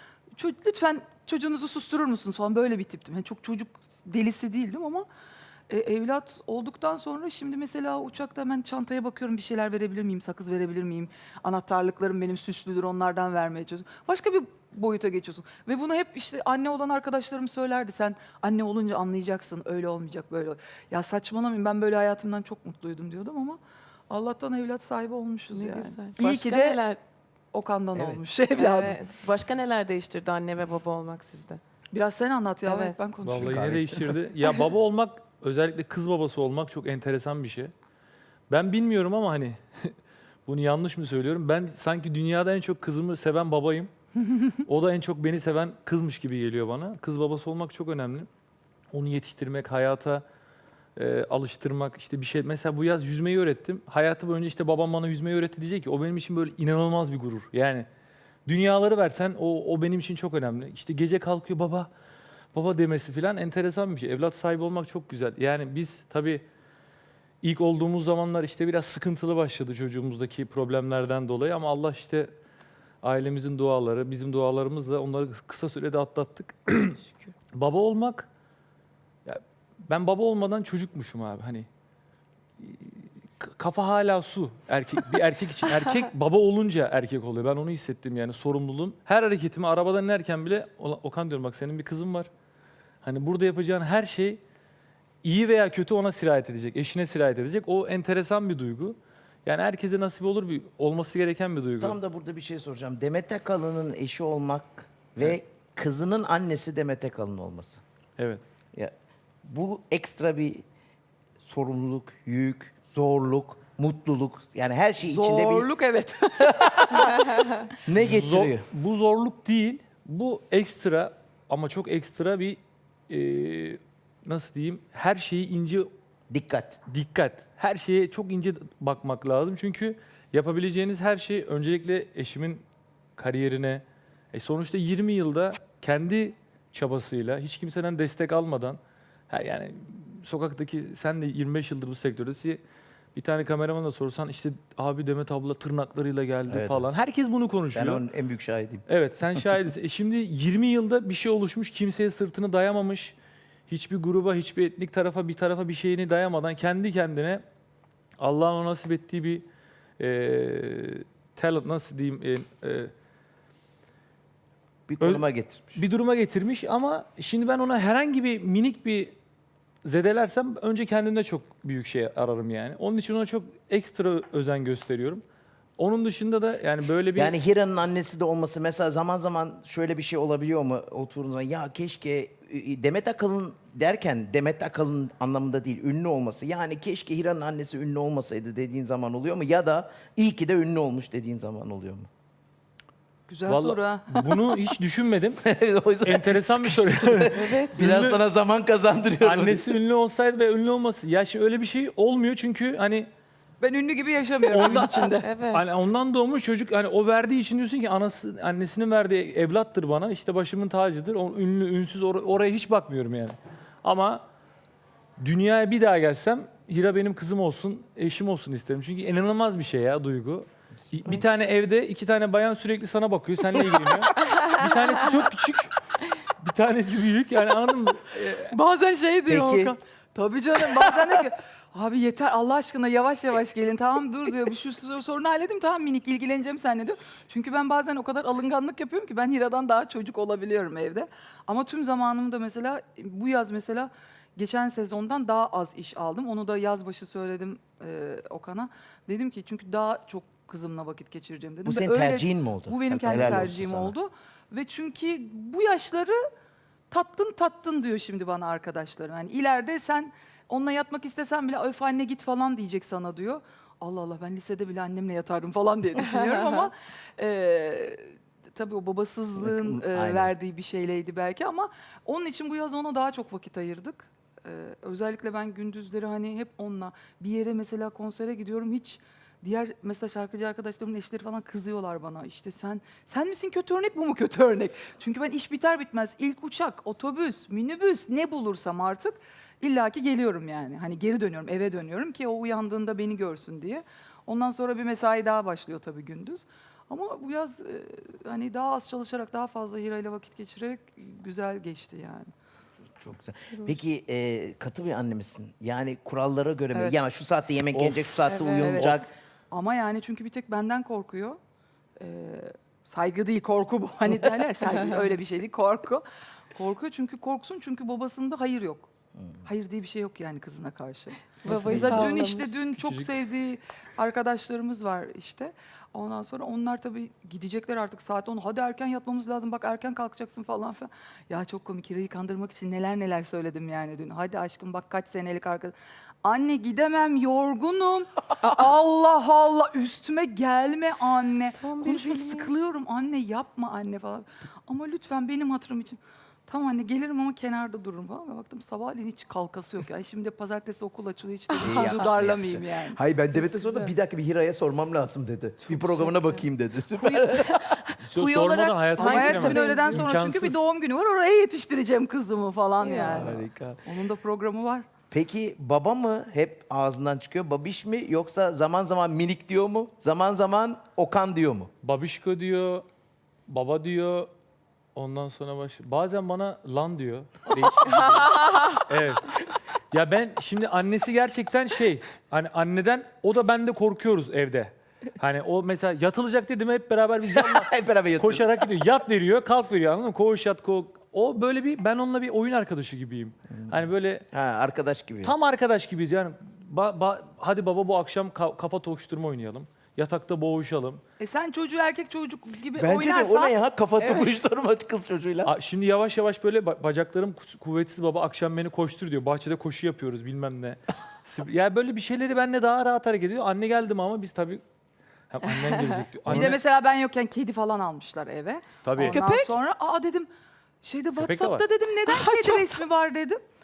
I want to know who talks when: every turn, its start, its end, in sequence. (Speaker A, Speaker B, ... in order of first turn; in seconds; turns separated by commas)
Speaker A: 0.3-5.0, Speaker A: 5.7-23.6, Speaker A: 24.1-26.8, Speaker B: 25.5-27.0, Speaker A: 27.5-29.0, Speaker B: 28.6-31.6, Speaker A: 31.9-33.7, Speaker B: 32.7-33.0, Speaker C: 33.2-37.7, Speaker D: 33.3-34.1, Speaker C: 38.5-43.9, Speaker C: 44.5-48.3, Speaker C: 48.9-50.2, Speaker C: 51.0-57.9, Speaker C: 58.5-61.9, Speaker C: 62.5-66.4, Speaker C: 67.4-72.3, Speaker C: 73.0-77.0, Speaker B: 77.0-77.3, Speaker C: 77.5-78.3, Speaker C: 79.2-81.7, Speaker C: 82.6-92.3, Speaker C: 93.0-94.4, Speaker C: 95.2-102.0, Speaker D: 101.8-107.8, Speaker D: 109.4-110.6, Speaker D: 111.4-115.7, Speaker A: 115.0-117.5, Speaker D: 116.7-118.7, Speaker C: 118.0-125.9, Speaker D: 126.3-126.8, Speaker C: 126.9-132.6, Speaker C: 133.2-138.8, Speaker C: 139.3-142.6, Speaker C: 143.1-148.1, Speaker D: 146.5-146.9, Speaker D: 147.7-149.4, Speaker C: 148.9-153.1, Speaker C: 153.7-157.4, Speaker C: 158.2-159.4, Speaker C: 160.0-162.9, Speaker D: 164.9-165.8, Speaker C: 165.0-169.1, Speaker C: 169.8-175.2, Speaker C: 175.8-177.4, Speaker D: 177.1-192.1, Speaker A: 193.3-194.6, Speaker C: 193.5-195.4, Speaker D: 195.4-199.7, Speaker C: 196.0-198.2, Speaker B: 197.3-197.8, Speaker C: 199.2-203.1, Speaker A: 203.6-205.3, Speaker C: 204.5-214.2, Speaker B: 205.2-205.6, Speaker C: 215.2-228.6, Speaker A: 228.5-256.2, Speaker D: 229.3-229.8, Speaker D: 251.6-253.9, Speaker A: 256.9-302.3, Speaker D: 269.4-270.3, Speaker D: 303.0-309.1, Speaker C: 307.7-309.0, Speaker B: 308.3-308.9, Speaker A: 309.5-311.4, Speaker A: 312.0-318.9, Speaker A: 319.4-353.0, Speaker C: 321.4-323.1, Speaker B: 321.4-322.5, Speaker B: 341.6-342.6, Speaker B: 351.6-352.3, Speaker D: 351.6-357.8, Speaker B: 355.7-356.4, Speaker B: 357.0-360.0, Speaker C: 358.0-360.6, Speaker A: 358.3-364.9, Speaker B: 362.8-363.3, Speaker D: 363.0-363.8, Speaker D: 365.1-371.7, Speaker C: 371.8-372.8, Speaker C: 373.5-374.3, Speaker C: 374.9-379.3, Speaker C: 379.9-394.2, Speaker D: 387.3-388.6, Speaker D: 394.3-395.3, Speaker C: 395.2-401.0, Speaker A: 401.2-404.2, Speaker D: 402.8-405.5, Speaker C: 405.4-414.6, Speaker C: 415.3-416.6, Speaker A: 416.2-420.3, Speaker C: 418.8-419.2, Speaker B: 419.0-419.6, Speaker A: 420.8-423.4, Speaker C: 421.2-421.6, Speaker B: 422.1-422.8